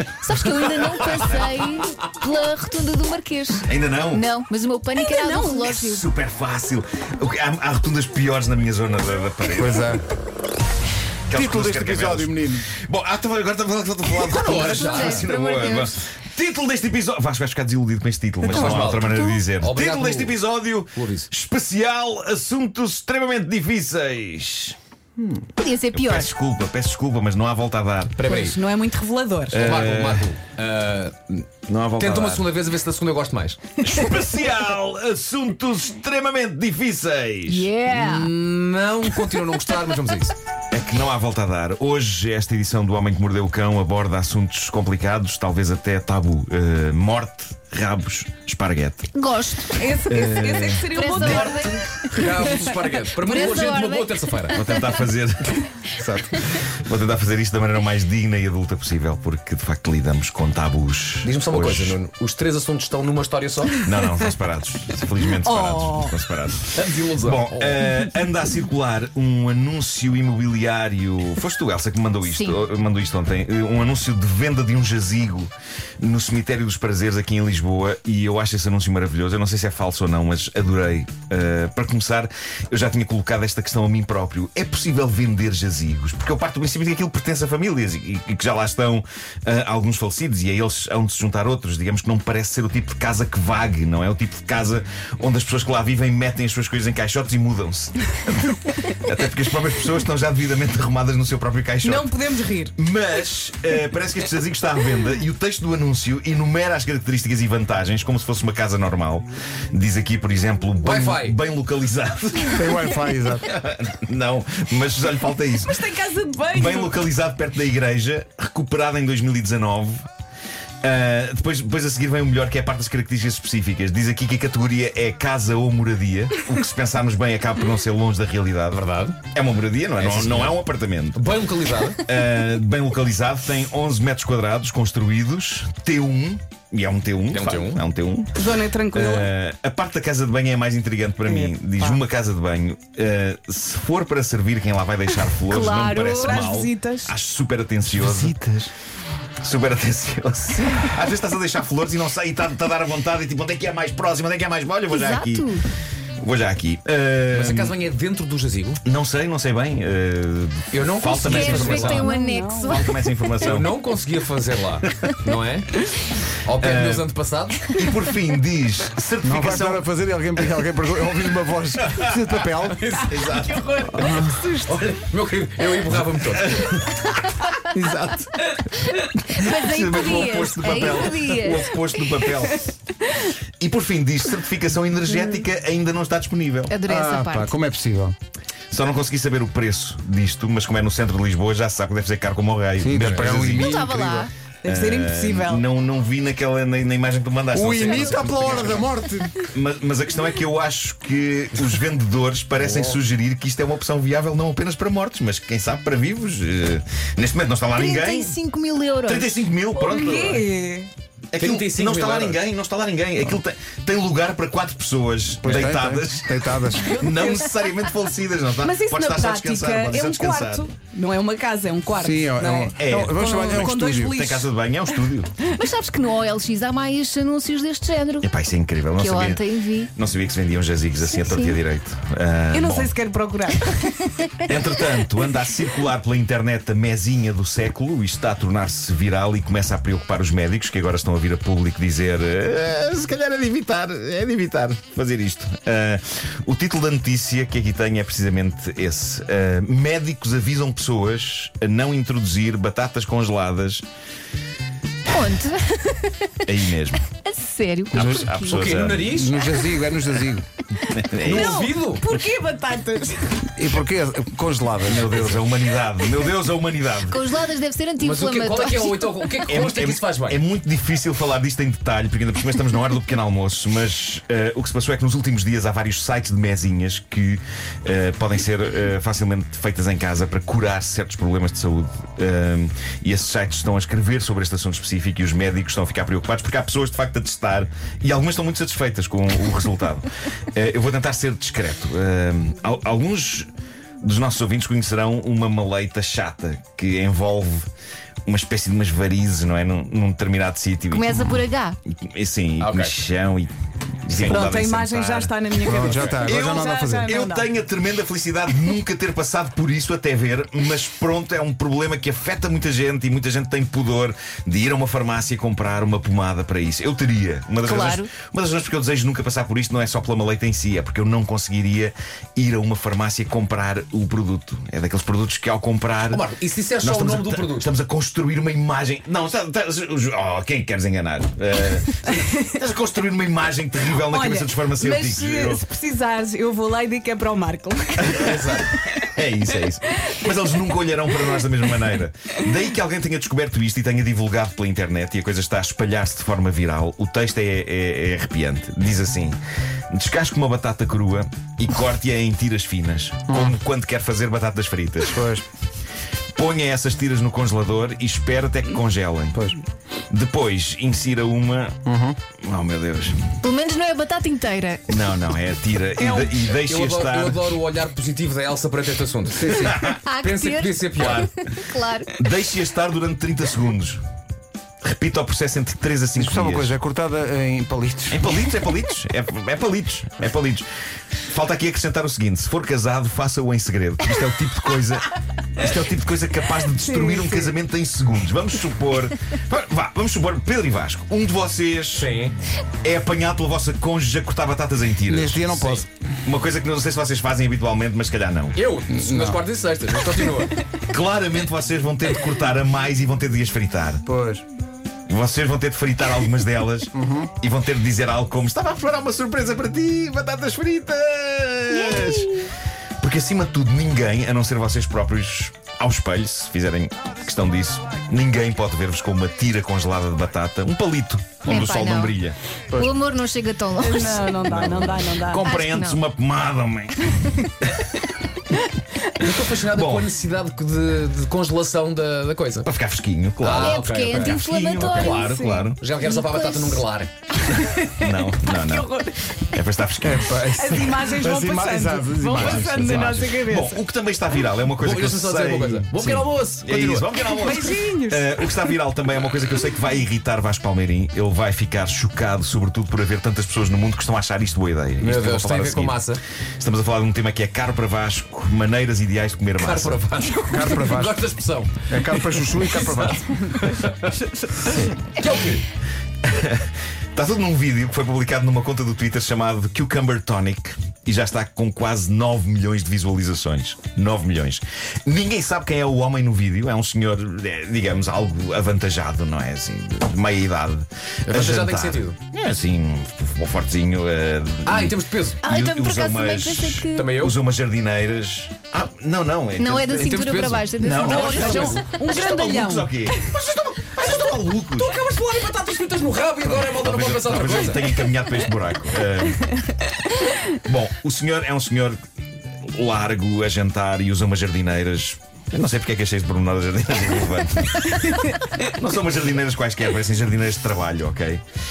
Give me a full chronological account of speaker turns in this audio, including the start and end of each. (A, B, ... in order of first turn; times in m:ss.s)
0:00.2-0:06.0 A
0:03.6-0:04.3 B
0:05.0-0:05.7 C
0:05.6-0:10.0 B
0:09.6-0:10.0 D
0:11.3-0:24.8 B
0:11.3-0:12.7 D
0:14.3-0:15.2 E
0:14.5-0:16.0 A
0:18.4-0:20.4 E
0:20.9-0:21.3 E
0:25.6-0:26.3 A
0:25.9-0:28.3 B
0:28.2-0:28.6 E
0:28.3-0:29.7 C
0:29.5-0:30.3 B
0:29.6-0:31.4 E
0:31.7-0:32.5 B
0:32.0-0:33.6 E
0:33.8-0:37.7 B
0:37.5-0:38.3 A
0:37.7-0:38.2 C
0:37.9-0:40.3 E
0:40.7-0:49.1 B
0:49.1-0:49.8 A
0:49.8-0:51.8 C
0:49.9-0:51.9 B
0:50.9-0:52.4 A
0:52.1-0:54.6 E
0:53.2-0:54.7 A
0:54.5-0:55.6 B
0:56.0-0:56.3 D
0:56.3-1:02.0 B
1:01.2-1:03.8 E
1:03.8-1:42.2 B
1:05.4-1:06.2 C
1:06.7-1:07.9 E
1:12.3-1:12.6 A
1:41.8-1:42.7 C
1:42.8-1:55.9 B
1:50.8-1:51.4 E
1:52.5-1:53.5 D
1:55.6-1:56.9 C
1:56.5-2:00.0 B
2:00.8-2:11.3 B
2:08.7-2:09.2 E
2:10.0-2:10.6 E
2:11.1-2:12.1 E
2:12.0-2:28.4 B
2:17.3-2:17.8 E
2:18.4-2:19.3 C
2:21.2-2:22.0 C
2:25.5-2:26.2 A
2:25.6-2:27.1 C
2:27.9-2:28.7 D
2:29.4-2:35.5 B
2:34.9-2:35.6 A
2:36.2-2:37.8 B
2:37.3-2:38.8 E
2:38.8-2:42.1 B
2:40.7-2:42.1 E
2:41.2-2:42.9 A
2:42.0-2:42.8 C
2:42.6-2:43.8 B
2:43.4-2:45.7 E
2:44.8-2:45.2 B
2:46.4-2:47.8 E
2:46.6-2:47.1 B
2:47.7-2:50.6 B
2:49.2-2:53.0 D
2:51.8-2:52.3 B
2:52.4-2:56.7 E
2:53.1-2:53.6 B
2:53.9-2:54.4 D
2:54.0-2:54.8 C
2:56.3-2:57.4 B
2:59.0-3:02.3 A
2:59.4-3:02.8 B
3:03.6-3:06.7 B
3:06.7-3:07.5 A
3:06.8-3:08.1 D
3:08.7-3:13.8 B
3:12.8-3:14.3 D
3:13.0-3:13.4 E
3:13.5-3:14.3 A
3:14.6-3:15.6 C
3:14.6-3:18.9 B
3:17.5-3:19.5 D
3:17.7-3:18.8 E
3:17.8-3:18.8 A
3:19.5-3:28.3 B
3:27.7-3:29.3 A
3:29.0-3:30.4 B
3:29.7-3:30.9 C
3:31.3-3:40.7 B
3:31.4-3:32.4 E
3:35.4-3:37.1 D
3:37.0-3:37.5 A
3:38.6-3:44.5 C
3:41.9-3:44.2 D
3:42.8-3:45.4 B
3:45.5-3:48.3 A
3:48.2-3:52.9 B
3:49.0-3:49.9 A
3:51.0-3:51.6 A
3:52.5-3:54.0 C
3:54.4-4:13.8 B
4:15.1-4:16.4 A
4:16.4-4:17.0 B
4:17.1-4:18.3 A
4:17.9-4:19.1 B
4:17.9-4:18.3 D
4:18.3-4:19.5 E
4:19.0-4:20.4 D
4:20.9-4:21.6 B
4:21.2-4:22.0 E
4:21.3-4:23.4 C
4:23.5-4:25.4 D
4:24.8-4:27.3 B
4:27.0-4:29.4 A
4:28.0-4:30.4 E
4:29.5-4:53.5 B
4:54.0-4:57.6 B
4:58.2-5:03.5 B
5:00.9-5:01.8 A
5:02.6-5:03.0 E
5:04.0-5:05.4 B
5:04.1-5:04.4 E
5:04.3-5:07.5 C
5:05.6-5:07.1 D
5:05.9-5:06.2 E
5:06.2-5:26.2 B
5:17.6-5:18.1 A
5:26.1-5:27.7 E
5:26.8-5:35.6 B
5:34.0-5:39.1 C
5:38.0-5:49.4 B
5:38.1-5:38.7 E
5:49.9-5:55.2 B
5:53.3-5:53.5 D
5:55.0-5:55.4 D
5:56.4-5:59.4 B
5:59.3-5:59.6 D
6:00.1-6:01.8 B
6:01.8-6:02.2 D
6:02.4-6:03.3 B
6:03.4-6:05.0 A
6:04.9-6:07.6 B
6:06.0-6:11.2 E
6:09.4-6:09.8 D
6:09.5-6:10.0 B
6:09.8-6:12.2 A
6:10.9-6:11.4 B
6:12.1-6:14.0 B
6:14.8-6:16.8 B
6:16.1-6:18.2 D
6:18.1-6:20.6 B
6:21.2-6:32.1 B
6:26.7-6:27.5 C
6:31.9-6:32.3 E
6:32.8-6:38.6 B
6:35.1-6:35.8 D
6:38.5-6:40.6 E
6:38.9-6:39.4 D
6:40.8-6:44.0 B
6:44.0-6:44.4 D
6:45.1-6:52.4 B
6:46.9-6:47.3 D
6:51.7-6:52.5 A
6:53.0-7:02.4 B
7:01.4-7:02.1 A
7:02.7-7:06.0 A
7:03.8-7:05.4 C
7:04.4-7:07.8 B
7:09.2-7:12.7 E
7:09.7-7:10.1 B
7:12.6-7:15.8 B
7:13.4-7:17.1 E
7:13.6-7:16.8 A
7:17.5-7:19.3 C
7:17.7-7:20.5 B
7:20.0-7:23.4 D
7:20.5-7:23.8 C
7:22.3-7:40.0 B
7:24.7-7:27.3 E
7:27.3-7:28.6 C
7:35.0-7:36.2 E
7:39.6-7:45.6 E
7:40.5-7:41.2 D
7:41.9-7:43.2 D
7:44.6-7:44.9 D
7:46.2-8:14.9 B
8:01.3-8:02.2 E
8:04.6-8:05.4 E
8:05.4-8:07.2 A
8:06.9-8:07.4 E
8:09.6-8:11.9 A
8:10.0-8:11.8 E
8:11.0-8:13.4 C
8:14.0-8:18.1 E
8:16.5-8:19.5 B
8:20.5-8:22.0 B
8:22.6-8:31.4 B